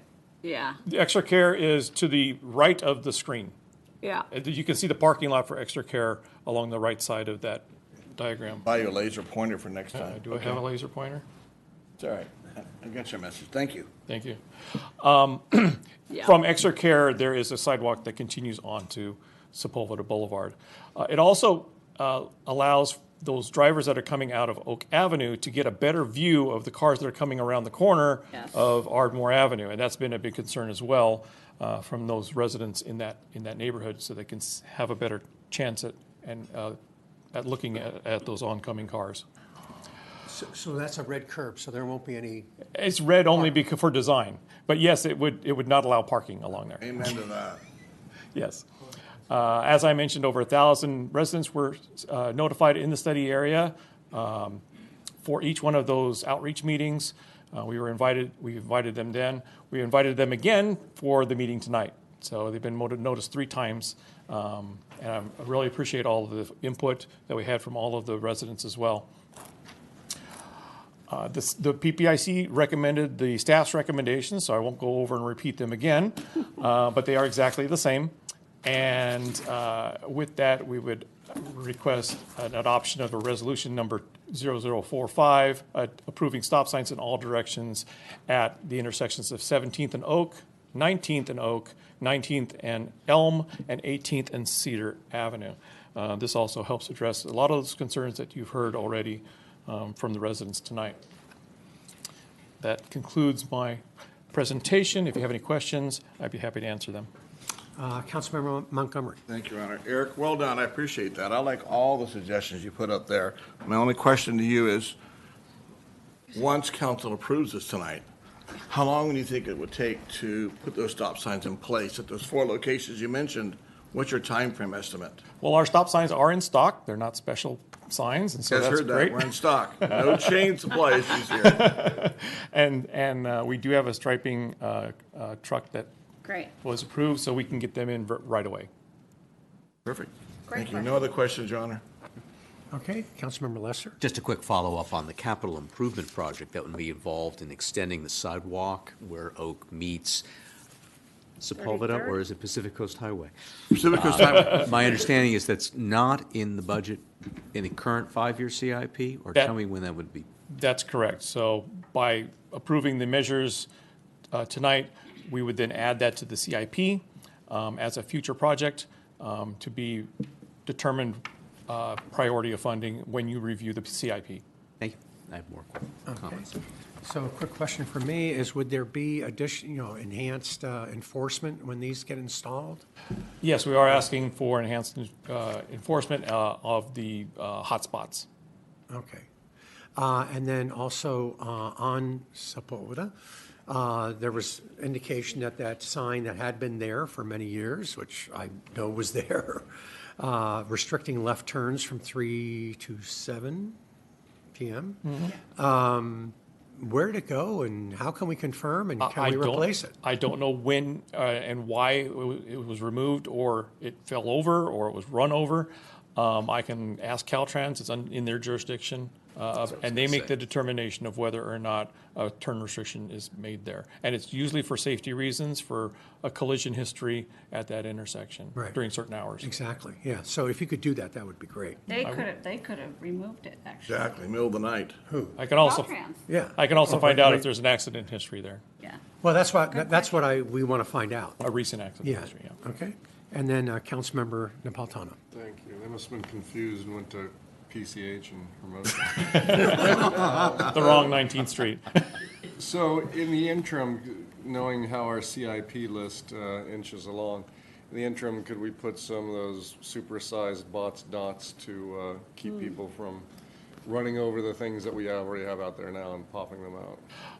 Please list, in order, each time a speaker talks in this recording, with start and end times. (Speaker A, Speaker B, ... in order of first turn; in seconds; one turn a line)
Speaker A: 0.4-0.8
Speaker B: 0.8-3.5
Speaker A: 4.0-4.3
Speaker B: 4.3-8.7
Speaker C: 8.7-10.6
Speaker B: 9.9-11.2
Speaker C: 12.0-13.9
Speaker B: 14.1-14.4
Speaker B: 15.0-36.8
Speaker B: 37.3-39.2
Speaker D: 40.3-42.5
Speaker B: 42.8-47.0
Speaker C: 46.8-47.6
Speaker B: 48.3-48.7
Speaker B: 49.3-54.6
Speaker B: 55.2-69.1
Speaker B: 71.1-78.1
Speaker B: 78.6-101.0
Speaker B: 102.6-107.1
Speaker D: 107.8-109.2
Speaker C: 109.3-114.9
Speaker C: 116.3-118.0
Speaker C: 118.7-125.2
Speaker B: 125.4-130.4
Speaker C: 128.5-131.8
Speaker B: 131.2-135.9
Speaker A: 136.2-136.5
Speaker B: 136.6-138.7
Speaker C: 139.8-141.8
Speaker A: 140.5-141.0
Speaker D: 142.7-144.0
Speaker E: 144.0-150.2
Speaker E: 151.4-160.3
Speaker A: 151.6-152.2
Speaker C: 153.7-155.0
Speaker B: 160.5-163.7
Speaker B: 164.3-170.1
Speaker B: 170.7-174.4
Speaker E: 174.8-176.5
Speaker D: 176.1-176.5
Speaker D: 177.0-182.8
Speaker B: 183.4-188.3
Speaker D: 188.9-189.2
Speaker D: 190.0-193.1
Speaker D: 193.7-203.8
Speaker D: 204.5-209.9
Speaker B: 209.0-229.5
Speaker D: 229.4-231.8
Speaker A: 231.9-234.0
Speaker C: 233.9-234.9
Speaker D: 235.1-235.4
Speaker B: 235.4-235.9
Speaker A: 235.6-236.2
Speaker D: 236.3-237.5
Speaker B: 236.6-238.6
Speaker D: 239.2-241.4
Speaker B: 241.4-242.6
Speaker D: 242.0-245.2
Speaker F: 245.3-250.8
Speaker B: 249.4-252.1
Speaker F: 252.6-263.3
Speaker F: 263.9-267.0